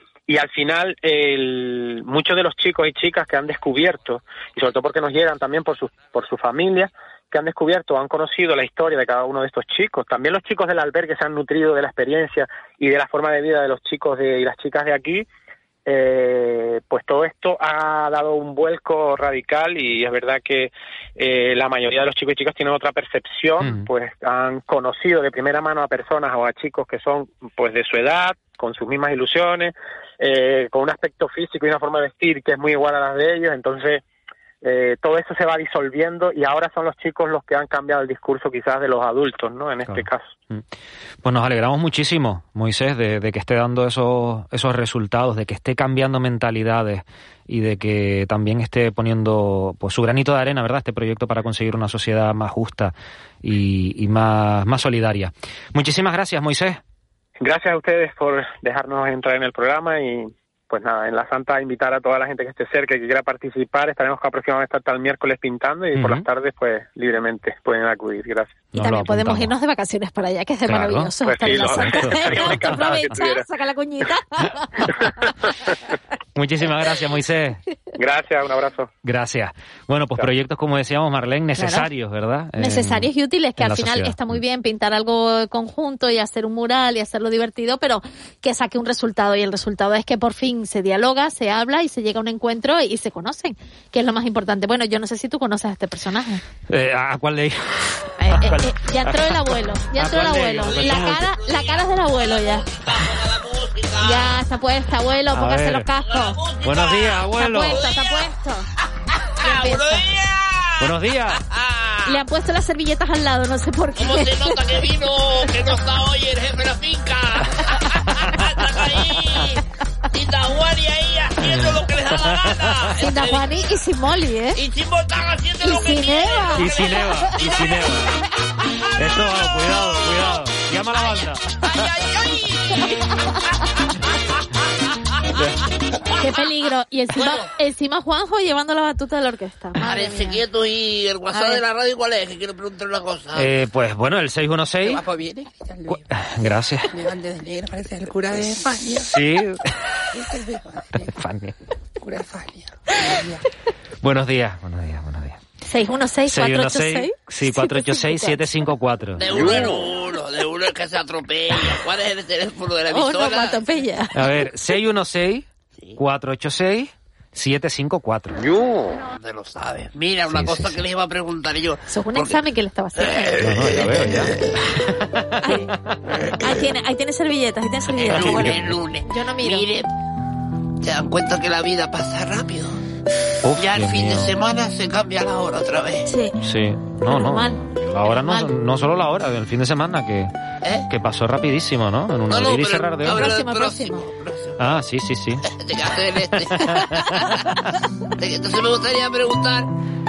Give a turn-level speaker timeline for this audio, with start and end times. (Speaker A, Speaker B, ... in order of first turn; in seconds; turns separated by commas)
Speaker A: 0.3-15.2, Speaker A: 15.9-34.0, Speaker B: 23.6-23.9, Speaker A: 34.6-40.3, Speaker B: 39.9-40.6, Speaker B: 41.2-56.8, Speaker A: 57.4-68.6, Speaker B: 66.0-66.3, Speaker B: 68.7-69.5, Speaker C: 68.7-74.9, Speaker B: 70.7-73.3, Speaker A: 71.3-73.5, Speaker B: 76.4-77.6, Speaker A: 78.0-78.9, Speaker B: 79.0-84.4, Speaker C: 81.6-81.9, Speaker C: 82.6-96.4, Speaker B: 96.7-101.3, Speaker C: 98.2-102.7, Speaker D: 100.1-104.4, Speaker C: 104.0-106.4, Speaker B: 105.3-105.9, Speaker D: 106.1-108.2, Speaker B: 106.6-107.9, Speaker C: 107.3-108.7, Speaker D: 109.2-112.2, Speaker C: 109.4-110.0, Speaker B: 110.8-111.4, Speaker C: 112.1-114.9, Speaker D: 114.0-119.6, Speaker D: 120.1-123.6, Speaker B: 121.4-122.7, Speaker C: 123.0-124.6, Speaker D: 124.5-127.9, Speaker C: 125.6-126.9, Speaker B: 126.5-128.1, Speaker B: 129.0-131.5, Speaker D: 129.5-130.3, Speaker D: 130.9-133.2, Speaker B: 135.4-135.6, Speaker D: 136.1-136.4, Speaker C: 136.2-140.4, Speaker D: 137.2-137.5, Speaker D: 139.8-143.5, Speaker C: 141.3-141.6, Speaker B: 143.3-145.0, Speaker E: 144.8-146.1, Speaker B: 145.9-146.9, Speaker E: 146.9-149.2, Speaker B: 149.0-149.8, Speaker E: 150.1-151.1, Speaker B: 151.1-151.6, Speaker E: 152.0-153.4, Speaker B: 154.0-155.4, Speaker C: 155.6-158.5, Speaker B: 156.3-159.2, Speaker D: 159.2-163.6, Speaker C: 162.9-164.5, Speaker B: 164.1-168.4, Speaker D: 169.2-172.4, Speaker B: 170.3-170.8, Speaker C: 171.9-173.5, Speaker D: 173.0-174.6, Speaker B: 173.4-175.7, Speaker C: 175.4-175.7, Speaker C: 176.4-179.7, Speaker D: 178.0-179.9, Speaker B: 178.1-178.6, Speaker D: 180.8-182.8, Speaker B: 183.4-184.3, Speaker D: 183.6-186.1, Speaker C: 186.1-186.3, Speaker B: 186.4-190.3, Speaker C: 187.1-188.5, Speaker B: 190.9-193.3, Speaker D: 192.3-194.6, Speaker C: 193.0-194.1, Speaker B: 194.6-195.5, Speaker D: 195.5-197.4, Speaker B: 196.4-197.2, Speaker D: 198.2-199.7